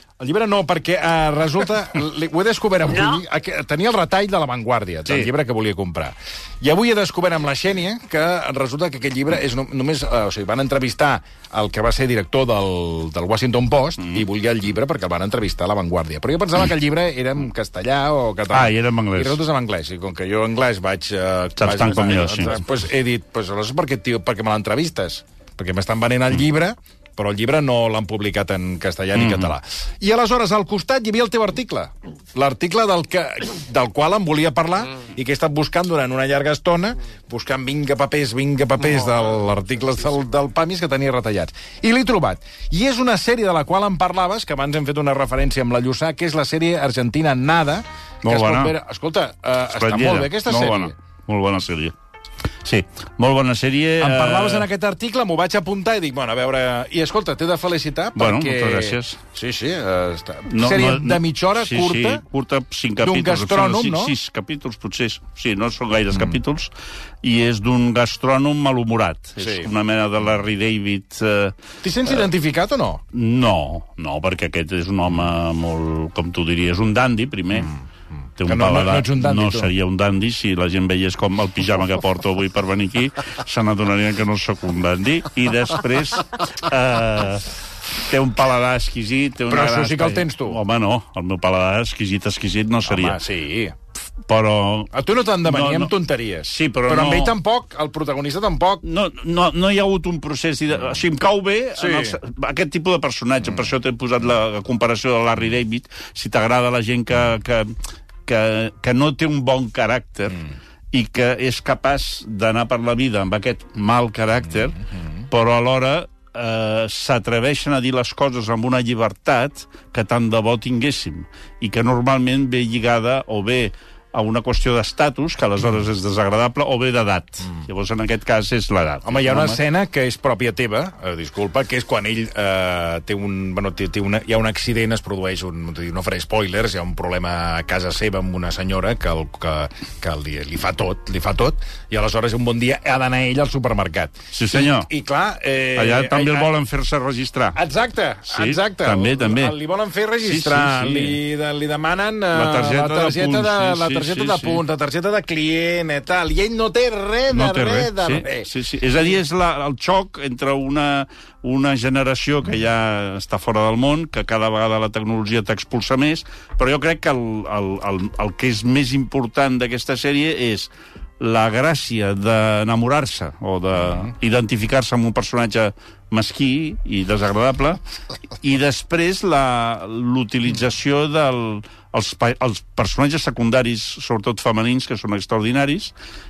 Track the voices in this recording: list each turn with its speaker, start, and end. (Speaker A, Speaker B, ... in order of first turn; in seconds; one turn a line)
Speaker A: 0.2-50.9
Speaker B: 18.5-19.4
Speaker B: 21.6-22.6
Speaker B: 29.1-29.5
Speaker B: 48.2-48.8
Speaker B: 49.7-52.0
Speaker B: 52.6-54.7
Speaker A: 54.0-62.2
Speaker B: 58.2-59.2
Speaker B: 60.5-71.6
Speaker A: 63.0-64.2
Speaker A: 69.4-69.7
Speaker A: 71.8-73.0
Speaker B: 73.1-77.7
Speaker B: 78.4-93.2
Speaker A: 78.4-79.7
Speaker A: 89.5-90.6
Speaker A: 92.8-93.8
Speaker B: 94.3-97.3
Speaker A: 94.9-98.8
Speaker B: 98.8-129.6
Speaker A: 101.8-102.2
Speaker A: 129.1-146.5
Speaker B: 144.3-144.9
Speaker B: 145.8-147.6
Speaker A: 147.6-158.5
Speaker B: 148.3-149.6
Speaker B: 150.2-151.2
Speaker B: 152.3-154.6
Speaker B: 157.3-177.8
Speaker B: 178.4-185.9